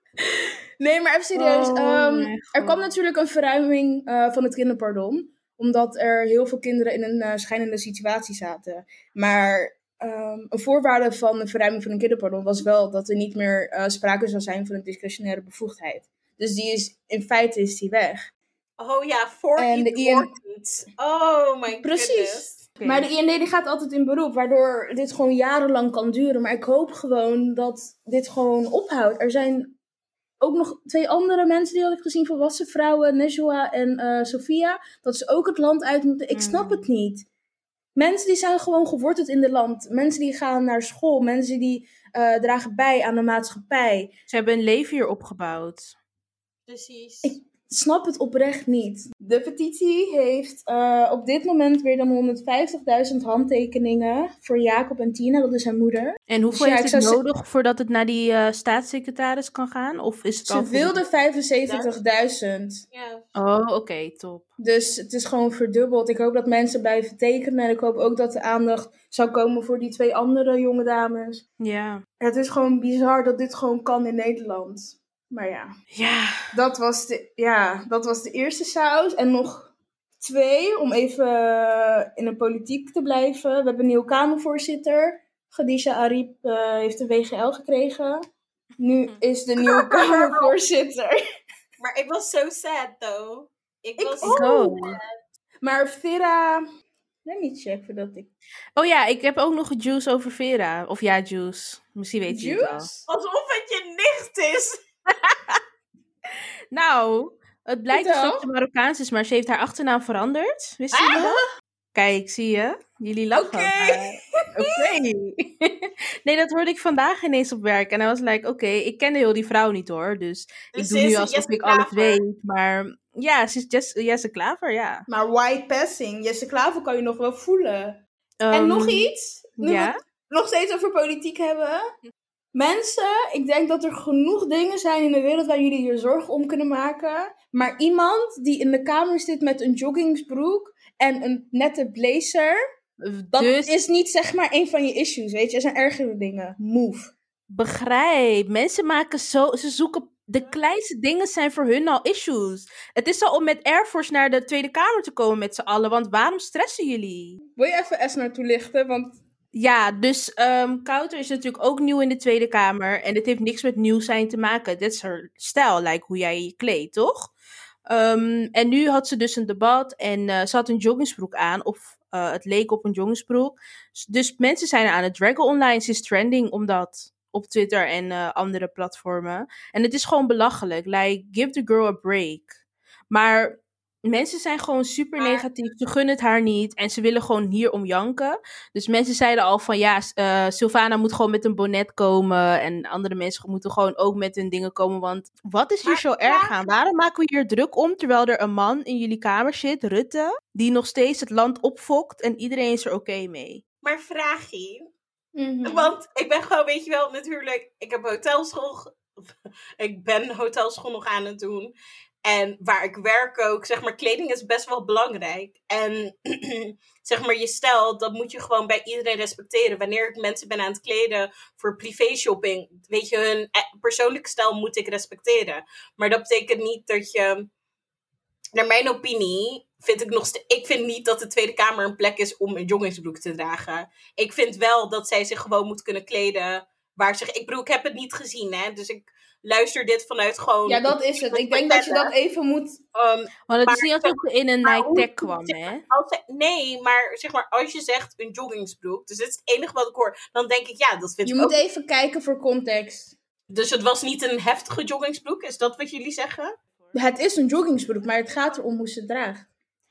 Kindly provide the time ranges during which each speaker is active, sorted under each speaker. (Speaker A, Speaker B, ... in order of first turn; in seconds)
Speaker A: 0.2-18.3, 19.6-20.3, 21.8-29.7, 30.4-37.2, 38.0-44.1, 47.2-57.2, 60.5-62.8, 64.6-71.4, 72.2-75.7, 76.5-88.2, 88.8-91.1, 94.0-95.0, 95.6-96.6, 97.2-98.3, 102.3-103.0, 107.9-108.5, 113.3-114.7, 125.1-128.0, 128.5-131.8, 132.5-142.6, 143.3-147.1, 157.6-159.2, 205.4-205.9, 240.7-242.8, 251.2-253.2, 256.9-259.5
Speaker B: 1.3-2.8, 22.8-23.1, 36.3-36.9, 44.3-45.9, 56.3-61.0, 63.3-64.5, 71.6-72.0, 75.9-76.5, 94.2-94.9, 98.8-102.9, 106.7-111.4, 111.9-125.0, 128.4-129.9, 143.0-143.7, 147.5-157.4, 159.5-167.3, 167.9-182.5, 183.1-203.6, 243.5-245.8
Speaker C: 18.8-22.6, 46.7-47.3, 62.9-63.2, 89.6-90.5, 91.8-95.0, 103.0-104.8, 110.9-111.3, 120.7-122.2, 185.2-185.5, 195.8-196.8, 203.8-204.9, 205.6-209.0, 209.8-211.7, 212.2-227.5, 228.5-242.1, 242.9-251.6, 253.5-256.5